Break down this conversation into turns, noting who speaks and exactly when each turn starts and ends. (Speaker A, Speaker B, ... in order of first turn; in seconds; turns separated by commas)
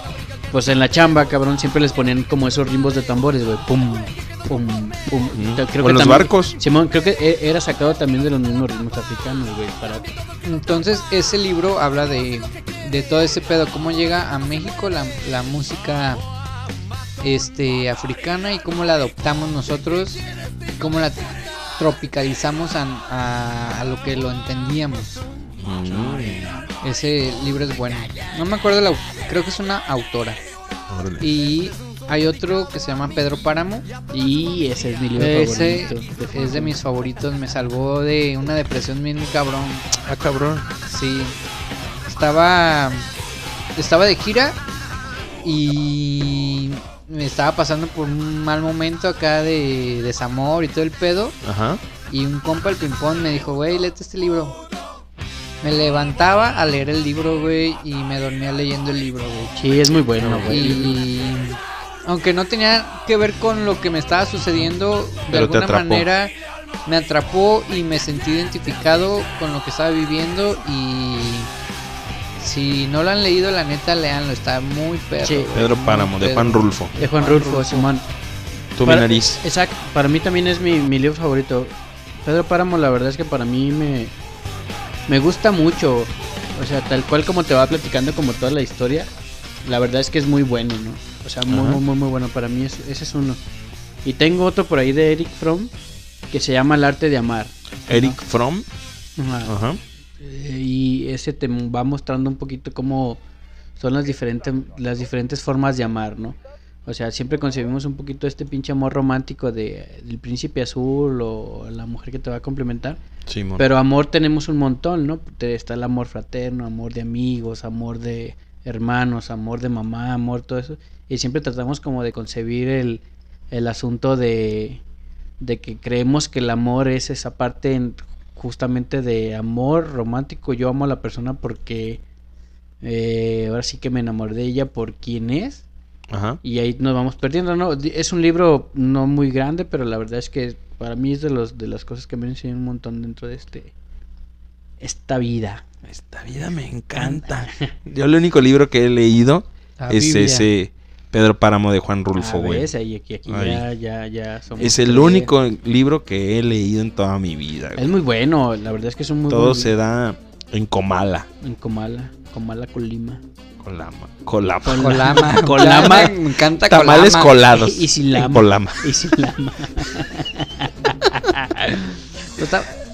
Speaker A: 0.5-10.2, Speaker B: 5.3-6.5, Speaker C: 10.4-16.2, Speaker C: 17.2-20.2, Speaker C: 20.8-25.2, Speaker B: 25.6-26.6, Speaker C: 26.8-30.4, Speaker B: 30.9-31.2, Speaker C: 31.2-33.9, Speaker A: 34.1-36.8, Speaker C: 35.2-39.9, Speaker B: 40.0-40.6, Speaker C: 40.8-41.4, Speaker C: 42.1-43.1, Speaker C: 43.8-44.6, Speaker C: 45.4-51.4, Speaker B: 51.4-51.8, Speaker C: 52.1-54.6, Speaker C: 55.6-59.6, Speaker A: 59.5-61.0, Speaker B: 60.2-60.6, Speaker C: 60.4-66.3, Speaker B: 65.3-66.1, Speaker C: 66.8-71.5, Speaker C: 72.4-77.9, Speaker A: 75.2-75.7, Speaker B: 75.5-76.9, Speaker A: 76.9-78.0, Speaker B: 78.8-79.4, Speaker A: 78.8-81.7, Speaker A: 82.2-84.1, Speaker A: 85.1-89.1, Speaker A: 89.6-93.4, Speaker B: 91.5-91.8, Speaker A: 94.0-95.7, Speaker A: 96.3-98.2, Speaker B: 97.9-98.7, Speaker A: 99.2-99.5, Speaker B: 99.4-99.8, Speaker A: 100.2-103.2, Speaker A: 103.8-113.0, Speaker B: 113.3-113.6, Speaker A: 113.6-124.8, Speaker A: 125.4-132.0, Speaker A: 132.8-135.6, Speaker B: 136.1-136.4, Speaker A: 136.4-143.7, Speaker A: 144.8-145.7, Speaker B: 145.9-152.7, Speaker A: 146.9-147.7, Speaker C: 149.8-150.5, Speaker A: 152.2-155.3, Speaker B: 153.3-153.6, Speaker B: 154.6-157.9, Speaker A: 157.8-159.7, Speaker B: 159.3-161.3, Speaker A: 161.4-163.2, Speaker B: 163.6-166.1, Speaker A: 164.6-166.2, Speaker C: 164.7-167.3, Speaker B: 166.6-168.9, Speaker A: 167.5-172.7